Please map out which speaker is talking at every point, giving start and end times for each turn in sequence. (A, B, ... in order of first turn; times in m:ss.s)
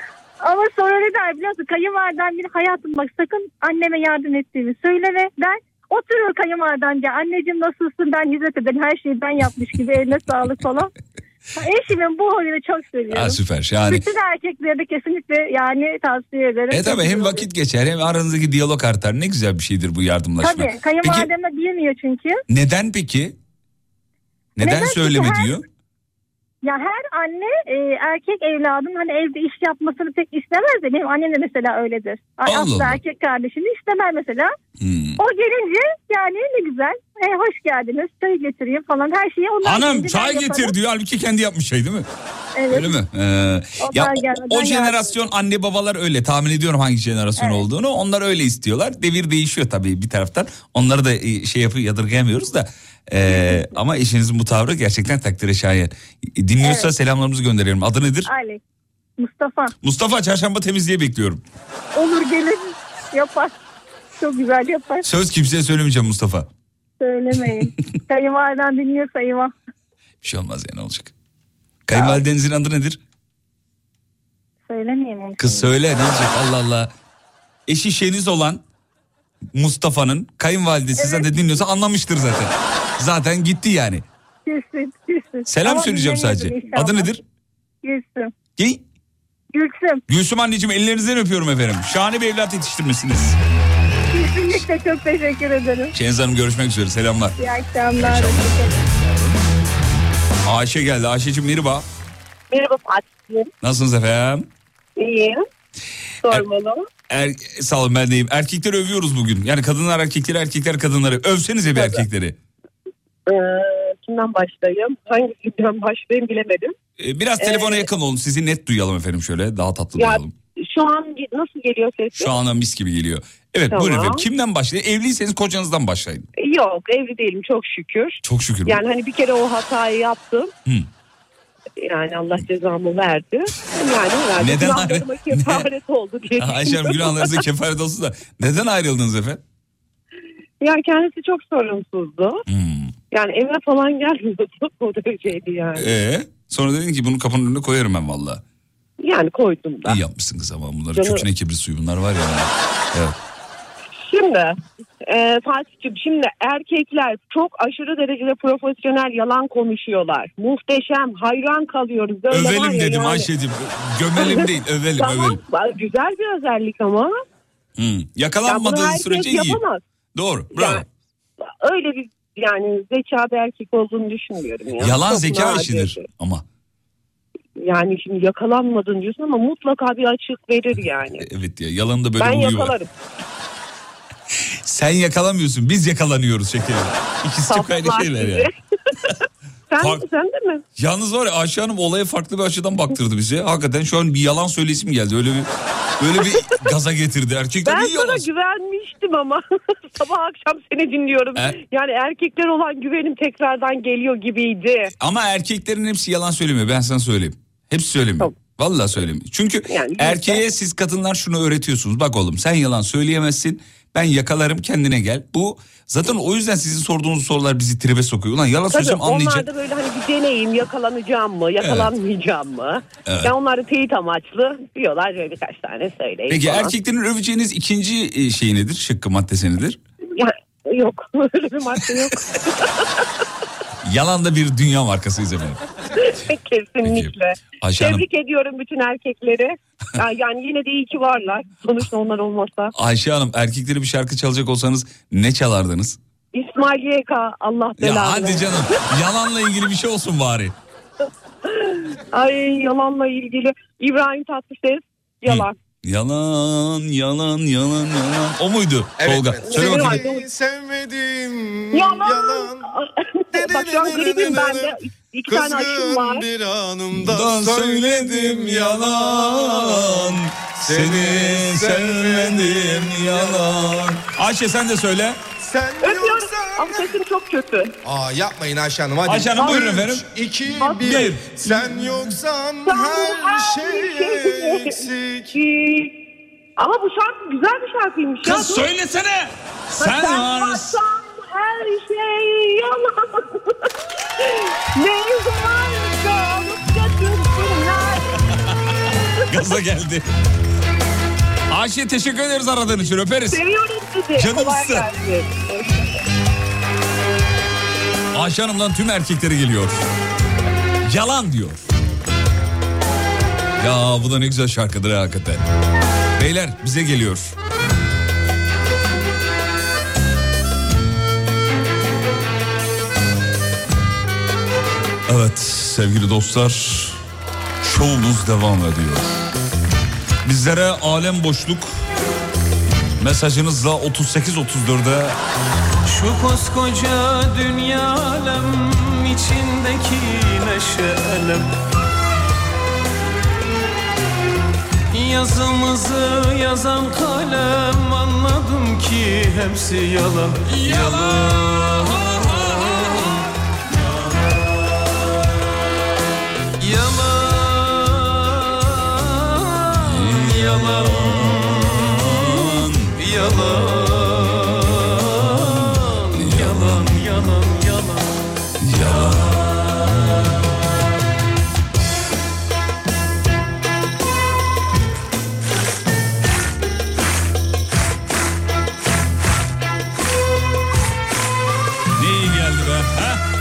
0:00.4-0:10.9 A
0:11.6-0:13.4 A
0:13.1-0:14.0 B
0:13.9-0:17.4 A
0:16.7-0:21.3 B
0:20.4-0:22.4 A
0:22.5-0:23.4 B
0:24.6-0:25.6 B
0:24.6-0:25.6 A
0:26.6-0:34.5 A
0:32.4-0:33.0 B
0:34.8-0:35.2 B
0:35.2-0:40.7 A
0:39.6-0:42.1 B
0:42.6-0:43.0 A
0:42.7-0:58.3 B
0:43.8-0:45.2 A
0:47.4-0:47.6 A
0:53.2-0:53.7 A
0:56.6-0:56.9 A
0:58.2-0:58.6 A
0:59.2-0:59.7 A
0:59.8-1:01.4 B
1:01.9-1:03.5 A
1:04.2-1:05.0 A
1:05.0-1:06.5 B
1:07.0-1:09.5 A
1:10.2-1:11.1 B
1:11.9-1:13.0 B
1:11.9-1:12.2 A
1:14.7-1:15.7 A
1:15.4-1:16.9 B
1:17.7-1:18.6 B
1:19.5-1:24.0 B
1:21.0-1:21.2 A
1:24.4-1:27.2 A
1:25.5-1:27.2 B
1:27.8-1:28.3 A
1:28.6-1:28.8 B
1:29.5-1:30.0 A
1:30.1-1:33.4 B
1:34.1-1:35.9 A
1:35.9-1:37.4 B
1:37.4-1:38.8 A
1:38.0-1:39.3 B
1:40.4-1:41.8 B
1:42.5-1:43.5 C
1:43.6-1:44.5 B
1:45.0-1:45.4 C
1:46.2-1:46.9 C
1:47.1-1:52.4 B
1:51.7-1:52.0 C
1:53.3-1:56.7 C
1:57.0-2:00.3 B
1:57.4-1:57.8 C
2:00.0-2:02.3 C
2:02.2-2:06.3 B
2:03.7-2:04.2 C
2:06.4-2:10.5 C
2:08.2-2:08.8 B
2:11.8-2:17.3 C
2:14.4-2:15.7 B
2:16.4-2:19.4 B
2:20.6-2:22.4 C
2:22.5-2:22.9 B
2:23.1-2:25.9 C
2:25.8-2:28.4 B
2:29.0-2:30.0 C
2:29.8-2:33.2 B
2:30.9-2:31.2 C
2:34.0-2:34.6 C
2:35.1-2:43.3 C
2:42.3-2:45.4 B
2:44.2-2:47.2 C
2:47.8-2:49.6 B
2:48.5-2:49.8 C
2:50.1-2:50.8 B
2:50.5-2:50.8 C
2:51.6-2:56.0 C
2:54.8-2:56.4 B
2:57.6-3:01.3 C
3:01.2-3:02.8 B
3:02.2-3:02.9 C
3:04.6-3:08.5 B
3:07.5-3:08.5 C
3:09.7-3:10.6 C
3:09.8-3:10.0 B
3:10.8-3:18.3 B
3:17.6-3:19.4 C
3:19.9-3:24.9 C
3:25.0-3:39.5 B
3:29.7-3:30.4 C
3:38.7-3:46.7 C
3:41.6-3:41.9 B
3:43.0-3:43.3 B
3:46.3-3:49.8 B
3:50.2-3:52.8 C
3:53.8-3:55.6 B
3:56.0-4:02.7 C
3:56.8-3:58.0 B
4:02.7-4:06.0 B
4:06.3-4:08.9 C
4:07.8-4:10.6 B
4:11.5-4:15.6 C
4:15.2-4:20.0 B
4:19.0-4:22.7 D
4:19.4-4:20.2 C
4:21.7-4:26.3 C
4:23.3-4:24.7 D
4:25.3-4:33.7 D
4:26.9-4:35.2 B
4:35.4-4:36.9 D
4:35.8-4:37.7 C
4:37.8-4:45.3 D
4:39.0-4:40.1 B
4:39.3-4:39.6 C
4:40.6-4:41.2 C
4:40.8-4:41.8 B
4:42.6-4:46.0 C
4:46.6-4:48.7 C
4:48.2-4:50.8 B
4:49.8-4:53.5 C
4:54.2-4:58.1 C
4:59.3-5:00.0 B
5:01.5-5:03.4 B
5:03.3-5:06.0 C
5:04.2-5:04.9 B
5:08.1-5:09.8 B
5:10.8-5:11.6 B
5:13.6-5:15.4 B
5:16.2-5:17.3 B
5:25.1-5:27.0 B
5:27.6-5:29.2 B
5:30.2-5:31.7 B
5:33.0-5:35.2 B
5:35.9-5:41.4 E
5:44.9-5:51.3 E
5:56.6-5:57.8 E
5:59.8-6:02.9 B
6:03.0-6:04.5 E
6:06.1-6:07.1 B
6:06.5-6:07.9 E
6:08.6-6:10.2 B
6:22.0-6:23.2 B